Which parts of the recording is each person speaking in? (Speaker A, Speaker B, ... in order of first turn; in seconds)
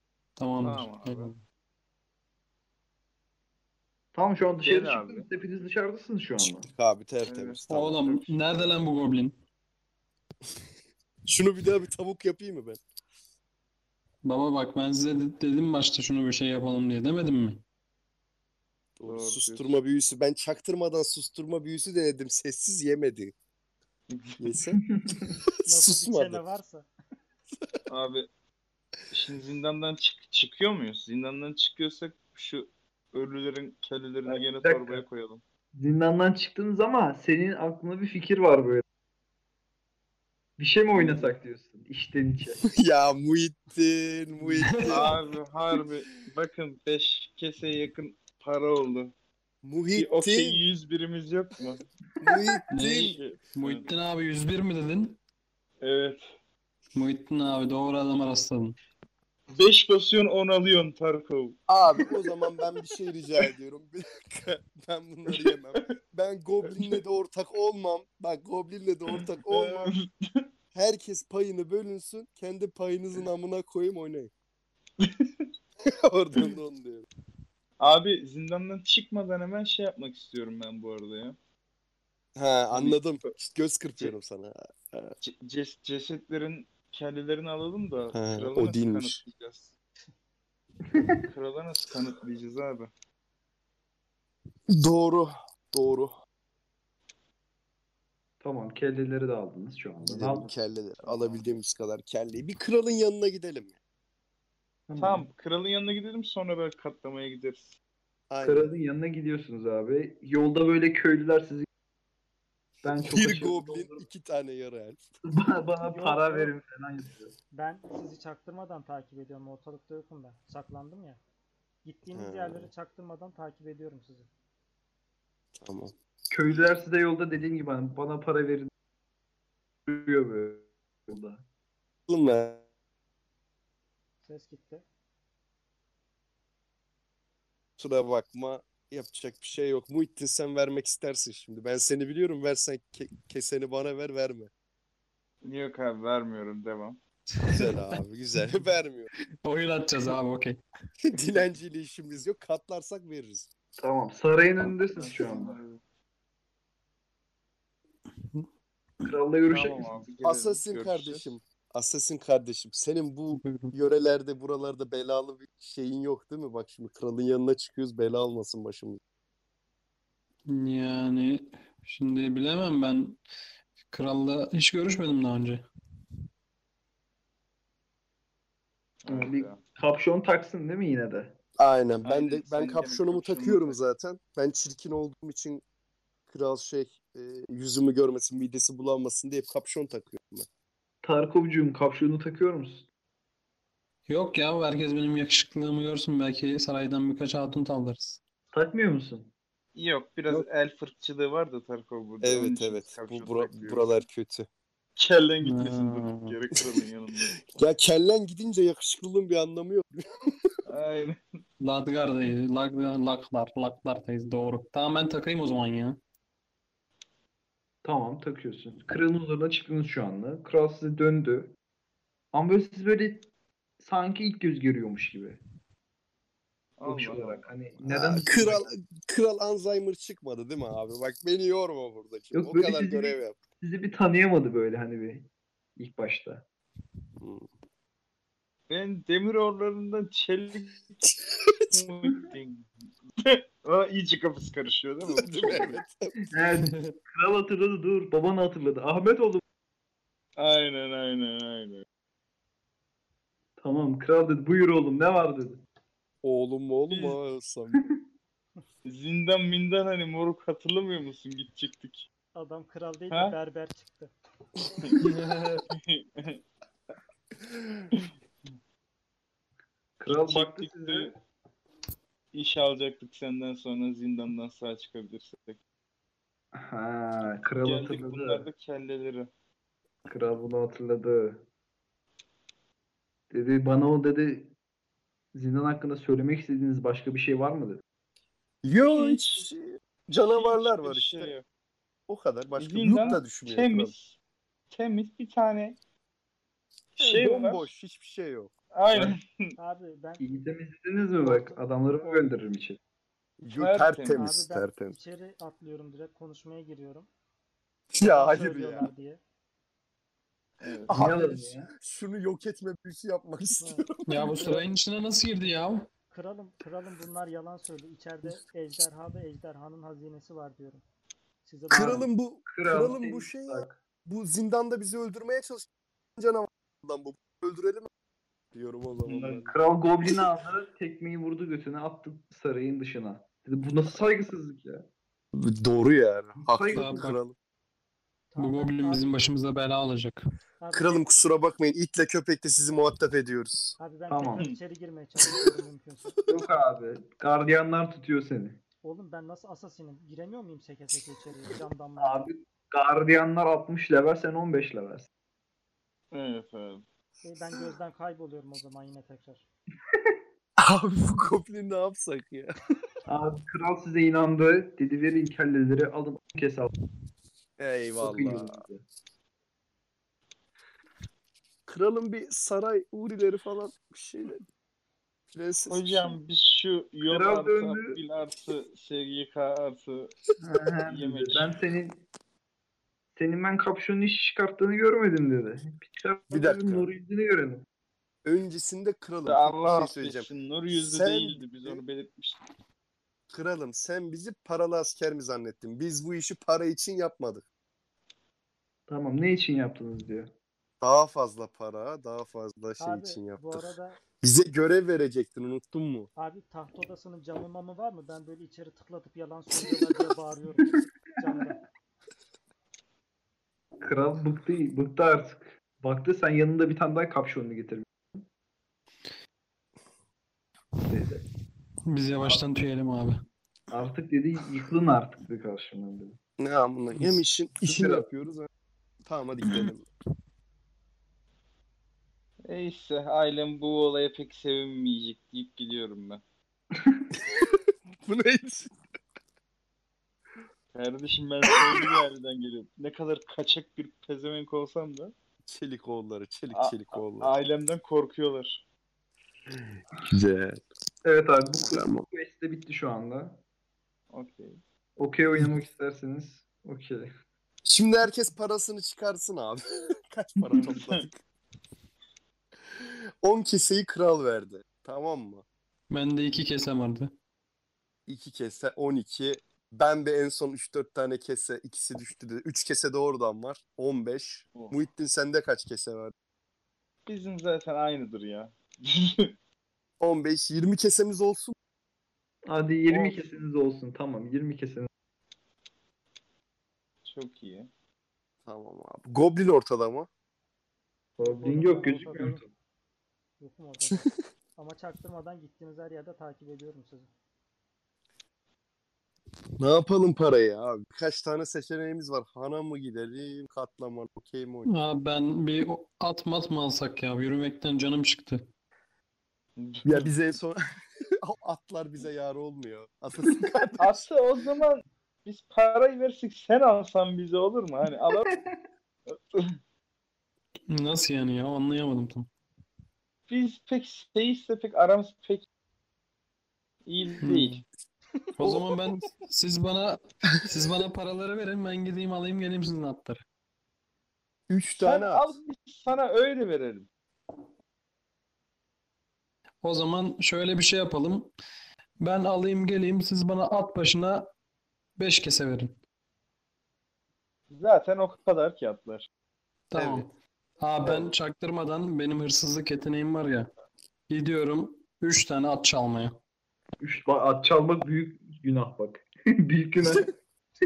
Speaker A: 0.4-1.4, 7.7-9.4, 14.2-17.6, 44.6-45.1, 52.7-55.2, 57.0-58.8, 147.4-147.9, 149.4-150.6, 163.3-163.8, 170.5-173.2, 173.9-175.7, 194.1-198.2, 205.4-206.4, 211.6-216.0, 246.6-247.0, 265.0-265.7, 314.1-315.9, 336.7-337.2, 338.4-340.2, 421.9-423.2, 465.9-467.1, 504.7-508.5, 520.7-522.3, 527.2-527.6, 528.4-533.2, 539.6-541.3, 542.0-544.3, 545.0-545.8, 549.7-553.5, 554.1-556.2
Speaker B: 0.6-1.3, 4.6-5.3, 7.3-7.6, 19.0-19.7, 24.1-24.4, 27.9-28.3, 29.1-35.4, 40.9-41.4, 44.8-49.1, 49.9-51.9, 52.8-53.9, 55.8-56.3, 59.5-62.1, 65.3-65.9, 66.7-67.0, 69.2-70.5, 75.0-75.5, 77.8-81.4, 82.7-83.1, 85.2-89.7, 91.2-92.9, 101.0-101.5, 105.0-107.8, 145.4-147.0, 154.9-155.8, 159.5-161.3, 179.0-179.6, 182.0-183.8, 199.8-204.0, 205.0-207.4, 210.7-211.2, 226.8-227.5, 238.7-240.8, 241.7-242.7, 243.2-245.8, 250.4-251.8, 256.9-257.2, 258.9-262.1, 263.1-263.4, 265.7-266.4, 270.1-271.1, 272.3-275.6, 277.4-279.3, 288.9-289.5, 290.2-291.4, 292.6-294.2, 294.7-295.8, 297.0-297.7, 298.7-299.2, 303.6-304.2, 310.6-310.9, 329.0-329.5, 356.1-356.8, 375.7-380.1, 380.9-381.5, 389.2-392.4, 432.5-436.2, 440.7-445.1, 446.5-448.6, 454.1-454.6, 460.6-461.0, 474.5-474.8, 477.1-479.3, 482.9-483.4, 487.1-487.7, 492.0-492.4, 509.6-510.1, 513.8-518.4, 519.1-519.6, 523.3-525.5, 526.9-527.6, 534.8-536.9, 547.5-549.1
Speaker C: 4.1-6.7, 25.1-25.3, 34.3-35.0, 35.7-38.8, 40.6-42.6, 90.9-91.2, 98.4-100.5, 104.9-105.3, 108.4-111.7, 112.8-114.0, 115.3-117.3, 126.3-128.7, 129.9-131.4, 153.8-155.6, 159.0-160.1, 179.1-181.4, 191.0-192.9, 198.5-199.3, 217.8-221.5, 222.3-223.3, 223.8-225.4, 226.9-228.7, 232.3-236.4, 246.3-249.4, 253.6-255.6, 270.0-271.2, 276.5-278.5, 280.1-281.4, 283.3-284.5, 285.3-287.8, 300.2-302.8, 310.9-311.7, 321.8-323.8, 329.5-334.9, 336.4-337.1, 344.1-344.4, 346.3-348.6, 352.0-355.1, 363.1-366.7, 368.0-368.8, 377.1-378.0, 380.4-382.0, 383.2-387.6, 398.9-400.3, 413.8-418.3, 420.9-421.2, 423.7-426.2, 427.6-428.1, 451.0-453.4, 455.0-457.1, 460.4-460.7, 482.5-484.9, 491.2-492.5, 518.1-518.4, 549.8-550.0, 550.8-551.1, 556.8-560.1
Speaker D: 6.4-8.8, 11.3-12.8, 19.0-23.3, 24.4-24.8, 25.6-26.4, 42.6-45.1, 49.6-50.6, 52.2-53.2, 61.7-69.9, 70.7-74.3, 75.8-77.1, 82.3-85.2, 88.1-89.2, 94.7-96.2, 100.0-103.8, 108.3-108.8, 112.9-115.0, 122.1-122.7, 125.6-125.9, 132.1-132.6, 137.8-144.5, 147.5-149.1, 151.0-153.5, 160.2-169.0, 181.6-185.6, 186.3-190.5, 202.2-204.5, 207.5-210.3, 227.8-233.4, 237.2-237.5, 245.2-246.2, 256.2-257.9, 288.6-291.3, 292.1-293.9, 297.0-299.1, 303.4-305.0, 307.9-308.9, 310.9-314.4, 321.7-327.9, 328.5-329.5, 335.3-337.4, 340.7-343.8, 360.6-362.6, 367.6-368.6, 371.7-374.4, 375.3-376.2, 386.3-386.9, 388.2-391.8, 393.3-397.4, 400.8-403.7, 404.2-406.1, 426.4-428.5, 429.1-429.9, 437.2-438.7, 441.5-441.9, 445.5-447.3, 449.5-450.6, 451.6-452.1, 457.6-461.2, 462.8-465.4, 468.1-476.1, 480.0-481.6, 488.4-490.1, 499.6-504.7, 509.9-510.6, 511.2-514.1, 528.4-528.7, 534.5-535.4
Speaker E: 25.7-26.9, 115.9-116.5, 117.5-121.2, 121.8-124.3, 134.2-134.8, 262.4-264.1, 299.6-300.3, 301.2-302.3, 304.2-307.1, 308.0-309.2, 313.6-314.7, 316.1-320.8, 321.4-322.1, 338.3-339.1, 340.6-341.1, 343.8-346.2, 348.8-352.3, 357.2-359.4, 402.8-404.0, 406.2-411.6, 491.2-492.4, 493.4-497.1